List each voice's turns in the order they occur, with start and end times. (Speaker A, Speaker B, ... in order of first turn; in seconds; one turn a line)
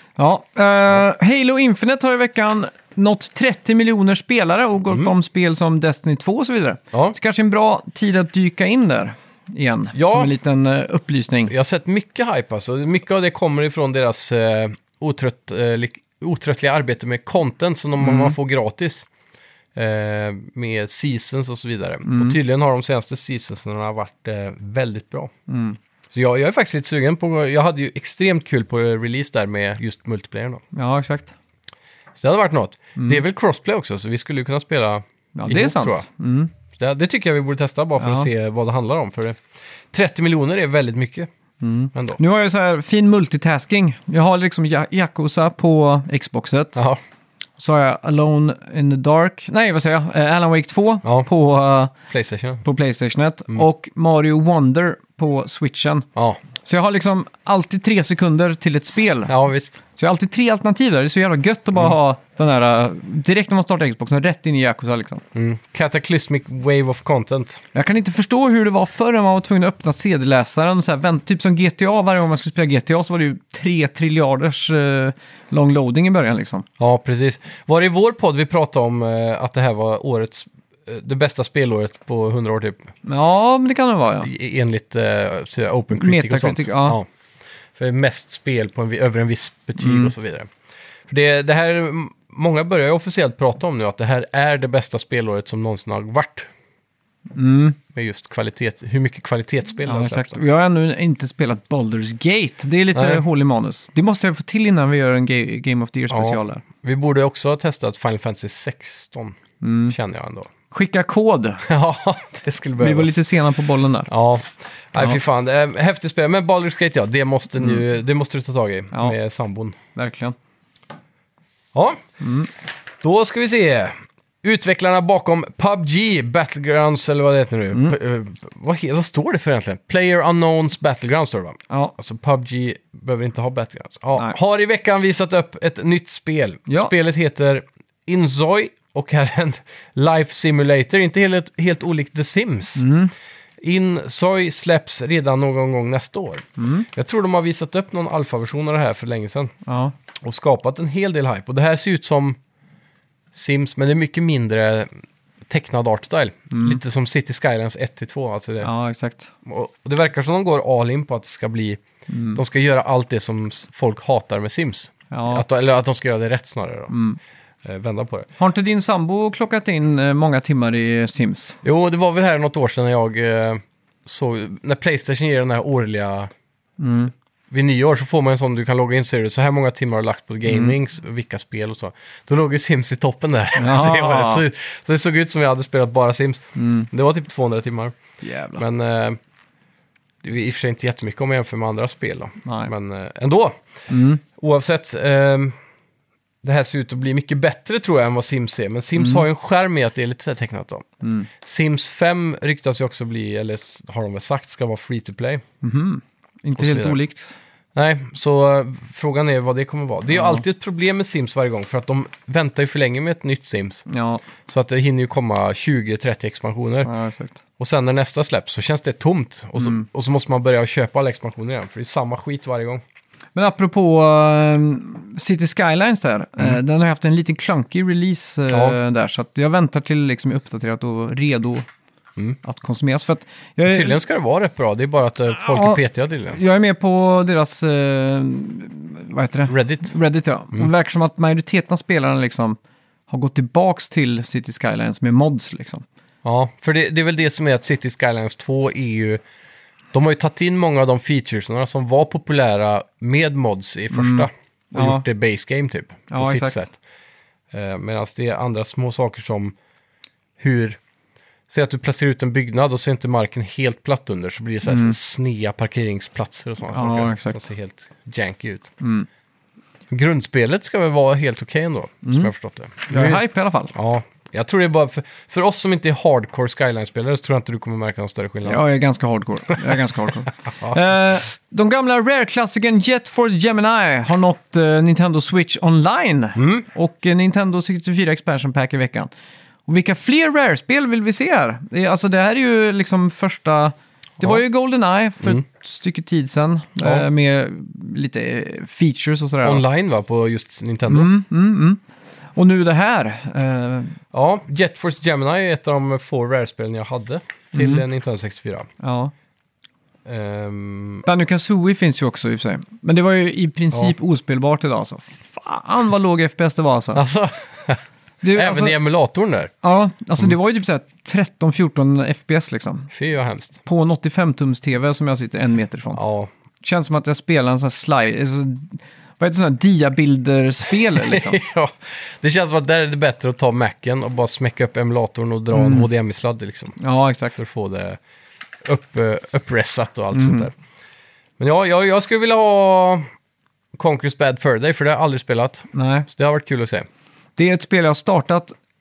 Speaker A: 0.2-11.5
Speaker B: 9.9-10.3
Speaker B: 11.5-19.1
Speaker A: 18.0-18.3
Speaker B: 19.7-25.3
Speaker A: 22.0-22.4
Speaker A: 25.5-25.8
Speaker B: 26.1-30.6
Speaker A: 30.7-31.3
Speaker B: 32.1-36.0
Speaker A: 33.0-33.2
Speaker A: 35.3-36.5
Speaker B: 36.7-39.4
Speaker A: 38.0-38.3
Speaker B: 39.9-41.3
Speaker A: 41.6-46.8
Speaker B: 41.9-42.2
Speaker B: 46.7-47.0
Speaker A: 47.6-51.9
Speaker B: 52.1-52.6
Speaker A: 52.6-56.1
Speaker A: 56.6-59.3
Speaker B: 59.3-59.8
Speaker A: 59.9-65.2
Speaker B: 65.3-67.6
Speaker A: 67.7-76.7
Speaker B: 76.8-82.9
Speaker A: 83.0-84.3
Speaker B: 84.2-87.0
Speaker A: 85.9-87.0
Speaker B: 87.8-90.5
Speaker A: 89.8-90.1
Speaker B: 91.1-96.5
Speaker A: 97.3-97.8
Speaker B: 97.9-100.4
Speaker A: 99.8-106.6
Speaker B: 102.9-103.2
Speaker B: 106.1-109.4
Speaker A: 109.6-109.9
Speaker B: 109.9-110.5
Speaker A: 110.7-111.6
Speaker B: 111.6-113.2
Speaker A: 112.8-114.1
Speaker B: 114.1-119.8
Speaker A: 119.9-120.3
Speaker B: 121.7-122.0
Speaker A: 122.2-122.5
Speaker B: 123.0-142.8
Speaker A: 136.7-136.9
Speaker A: 142.8-143.1
Speaker B: 143.6-149.5
Speaker A: 146.6-146.9
Speaker A: 149.7-149.9
Speaker B: 150.2-152.4
Speaker B: 153.3-154.9
Speaker B: 155.5-158.7
Speaker A: 156.5-156.8
Speaker A: 158.6-159.3
Speaker B: 159.4-161.8
Speaker A: 162.1-162.4
Speaker B: 162.3-166.9
Speaker A: 165.1-165.4
Speaker A: 166.9-167.2
Speaker B: 167.6-168.3
Speaker A: 168.4-171.6
Speaker B: 171.6-176.3
Speaker A: 176.8-177.1
Speaker B: 177.5-187.9
Speaker A: 180.5-180.7
Speaker A: 183.6-184.4
Speaker A: 186.6-186.9
Speaker A: 188.2-188.6
Speaker B: 188.6-189.2
Speaker B: 190.2-193.6
Speaker A: 192.4-192.7
Speaker A: 193.9-194.2
Speaker B: 194.3-195.5
Speaker B: 196.4-200.9
Speaker A: 199.0-199.2
Speaker A: 201.0-201.3
Speaker B: 201.4-205.4
Speaker A: 205.6-207.3
Speaker B: 206.6-207.0
Speaker B: 207.7-213.8
Speaker A: 210.1-210.4
Speaker A: 213.9-214.2
Speaker B: 214.5-216.9
Speaker A: 216.8-217.4
Speaker B: 217.6-222.8
Speaker A: 219.6-219.8
Speaker A: 223.3-231.6
Speaker B: 228.5-228.8
Speaker A: 232.4-234.0
Speaker B: 233.7-236.4
Speaker A: 235.3-242.6
Speaker B: 239.5-239.9
Speaker A: 243.1-245.8
Speaker B: 246.2-249.2
Speaker B: 249.9-256.8
Speaker A: 253.9-255.0
Speaker A: 256.1-256.6
Speaker B: 257.5-259.5
Speaker B: 260.4-260.8
Speaker B: 261.5-268.7
Speaker A: 264.6-265.0
Speaker A: 266.7-267.4
Speaker A: 268.8-269.1
Speaker B: 269.9-278.6
Speaker A: 272.0-272.3
Speaker A: 272.9-273.7
Speaker A: 278.4-289.1
Speaker B: 286.4-286.6
Speaker A: 289.7-299.6
Speaker B: 296.8-297.1
Speaker B: 299.4-301.1
Speaker A: 300.9-301.8
Speaker A: 302.4-304.0
Speaker B: 304.1-308.7
Speaker A: 307.5-307.8
Speaker A: 308.8-309.1
Speaker B: 310.1-311.1
Speaker A: 311.1-317.0
Speaker B: 316.9-317.8
Speaker A: 318.2-318.8
Speaker B: 318.3-319.5
Speaker A: 319.6-322.9
Speaker B: 322.9-323.6
Speaker A: 323.6-326.0
Speaker B: 325.9-326.3
Speaker A: 326.6-331.4
Speaker B: 330.7-336.8
Speaker A: 335.5-335.9
Speaker A: 336.8-337.4
Speaker B: 337.3-338.0
Speaker B: 338.6-340.5
Speaker A: 340.1-340.5
Speaker B: 341.4-343.0
Speaker B: 343.7-346.9
Speaker A: 345.7-346.1
Speaker A: 347.4-348.5